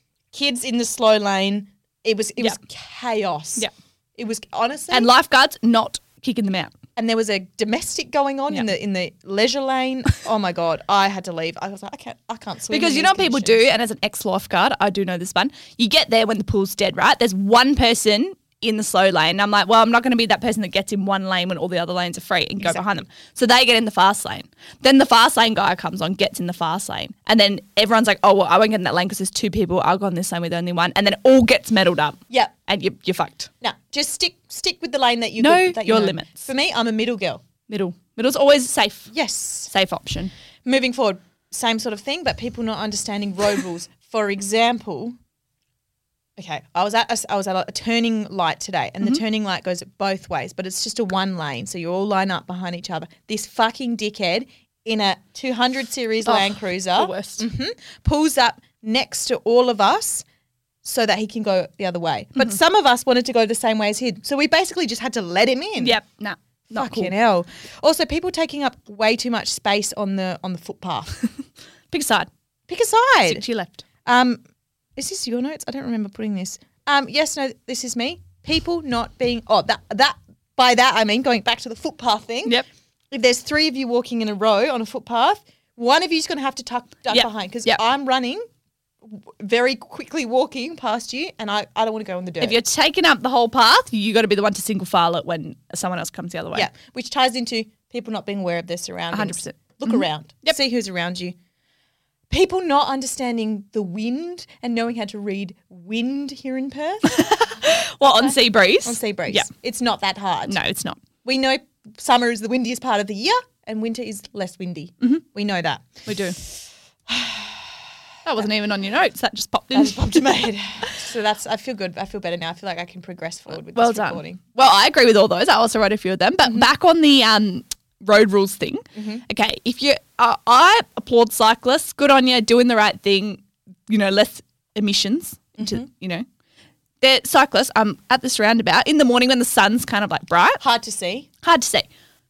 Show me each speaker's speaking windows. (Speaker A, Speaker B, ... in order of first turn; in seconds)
Speaker A: 0.3-5.1, 7.0-13.6, 33.6-37.4, 39.1-39.7, 40.6-45.1, 46.4-60.2, 60.8-66.0, 66.7-71.2, 72.7-73.5, 74.0-74.4, 75.0-82.6, 83.1-88.4, 89.0-92.6, 96.5-101.3, 102.3-107.4, 108.0-110.6, 111.2-116.5, 117.1-117.8, 119.7-124.4, 128.9-129.2, 135.6-135.8, 140.6-141.3
Speaker B: 4.9-6.7, 12.7-33.5, 35.4-36.5, 37.7-39.1, 39.7-40.3, 56.2-57.5, 65.8-67.1, 71.9-72.3, 73.2-73.8, 87.1-87.8, 92.4-96.7, 99.1-100.5, 107.1-109.5, 110.5-111.0, 116.0-116.4, 118.2-120.3, 123.7-136.2, 137.0-140.6, 141.4-141.9